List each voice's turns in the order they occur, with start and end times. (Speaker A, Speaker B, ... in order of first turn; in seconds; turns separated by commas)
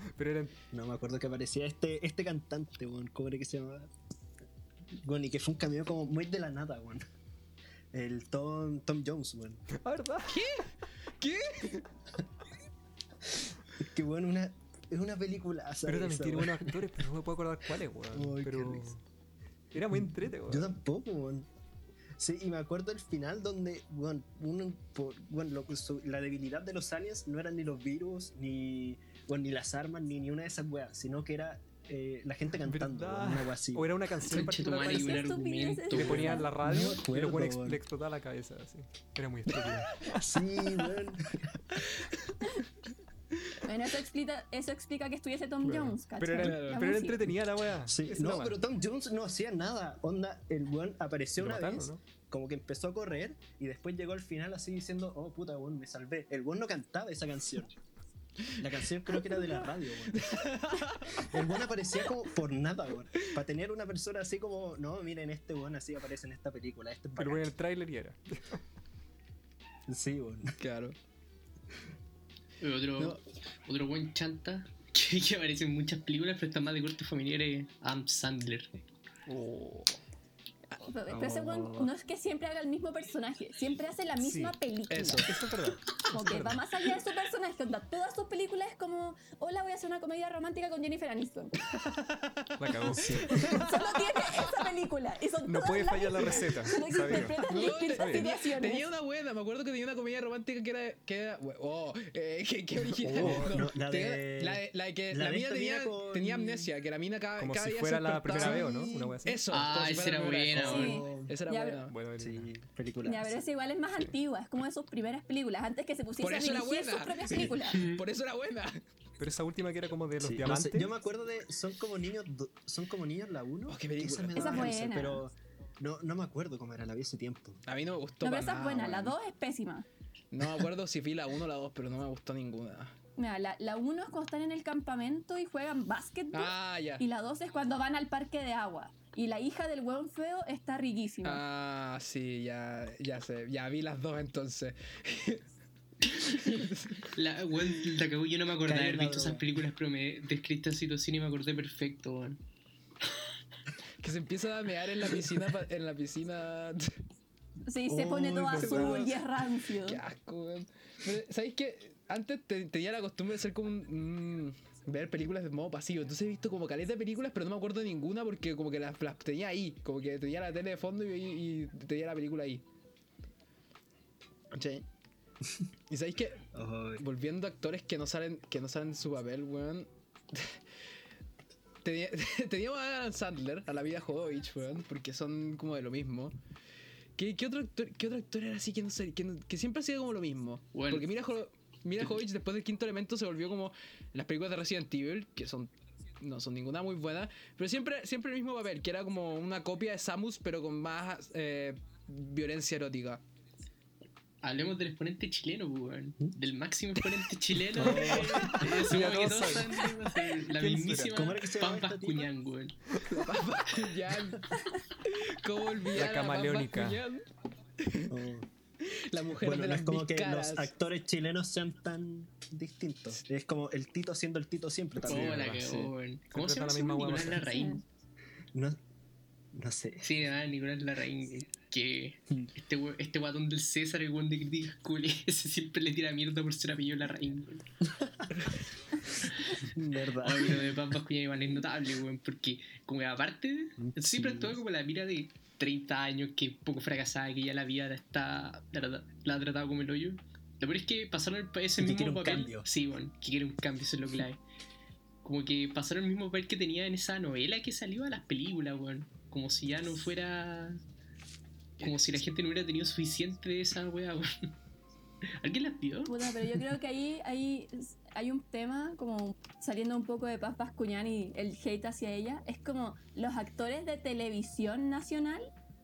Speaker A: 0.1-0.6, Speaker B: 0.7-3.9, Speaker B: 5.0-7.0, Speaker B: 7.9-9.6, Speaker A: 9.7-10.5, Speaker C: 10.3-11.9, Speaker B: 13.8-16.8, Speaker A: 15.8-19.0, Speaker B: 18.1-18.9, Speaker A: 19.7-20.7, Speaker B: 19.9-21.5, Speaker B: 22.2-33.9, Speaker A: 32.6-35.3, Speaker D: 34.2-36.4, Speaker E: 34.7-36.5, Speaker A: 35.9-40.3, Speaker B: 36.6-37.8, Speaker B: 40.1-41.6, Speaker E: 43.6-47.3, Speaker A: 45.6-48.6, Speaker C: 46.4-46.9, Speaker B: 47.9-57.7, Speaker A: 51.4-52.0, Speaker B: 58.6-67.5, Speaker C: 60.1-61.3, Speaker A: 67.2-68.6, Speaker B: 69.9-70.5, Speaker C: 70.6-70.9, Speaker D: 72.6-78.8, Speaker A: 79.3-79.9, Speaker E: 80.8-85.3, Speaker B: 81.1-81.9, Speaker A: 84.2-84.6, Speaker C: 84.9-85.3, Speaker A: 85.1-86.6, Speaker E: 86.1-91.6, Speaker C: 91.9-94.4, Speaker A: 92.6-93.8, Speaker E: 93.0-98.8, Speaker A: 95.4-98.3, Speaker C: 97.1-108.7, Speaker A: 102.9-103.6, Speaker B: 103.0-106.7, Speaker A: 107.4-109.5, Speaker E: 108.4-109.1, Speaker C: 109.2-111.9, Speaker D: 109.5-111.0, Speaker B: 110.5-111.3, Speaker E: 110.6-111.8, Speaker A: 111.9-112.5, Speaker B: 112.2-113.4, Speaker E: 113.0-117.9, Speaker C: 116.2-118.8, Speaker D: 117.6-118.0, Speaker A: 119.2-120.9, Speaker B: 120.2-127.6, Speaker C: 123.7-124.7, Speaker E: 124.3-125.2, Speaker C: 127.7-129.2, Speaker E: 128.2-129.8, Speaker C: 130.3-132.9, Speaker E: 133.2-141.4, Speaker C: 136.3-137.0, Speaker C: 141.2-145.4, Speaker C: 146.0-147.1, Speaker D: 147.1-152.4, Speaker B: 148.6-149.5, Speaker C: 154.0-156.9, Speaker E: 157.7-160.0, Speaker B: 157.8-159.2, Speaker C: 158.5-159.1, Speaker C: 159.8-172.6, Speaker C: 174.5-174.8, Speaker C: 175.9-180.6, Speaker B: 176.5-177.0, Speaker C: 181.8-186.3, Speaker C: 187.2-203.2, Speaker D: 190.7-191.1, Speaker D: 204.4-212.8, Speaker B: 207.7-208.5, Speaker A: 207.8-209.9, Speaker C: 207.9-209.2, Speaker A: 210.5-211.3, Speaker B: 211.1-212.3, Speaker C: 213.0-217.2, Speaker A: 215.9-217.0, Speaker C: 217.8-218.1, Speaker B: 218.1-218.5, Speaker C: 218.8-220.7, Speaker B: 219.4-225.9, Speaker D: 225.0-227.8, Speaker A: 225.1-225.8, Speaker A: 226.3-227.5, Speaker E: 227.4-227.8, Speaker B: 228.5-228.8, Speaker B: 229.5-230.1, Speaker D: 230.0-237.7, Speaker B: 239.6-240.8, Speaker D: 240.1-254.4, Speaker B: 243.8-244.6, Speaker B: 251.8-252.7, Speaker D: 255.2-260.8, Speaker D: 261.8-264.6, Speaker D: 265.4-266.6, Speaker E: 266.1-275.5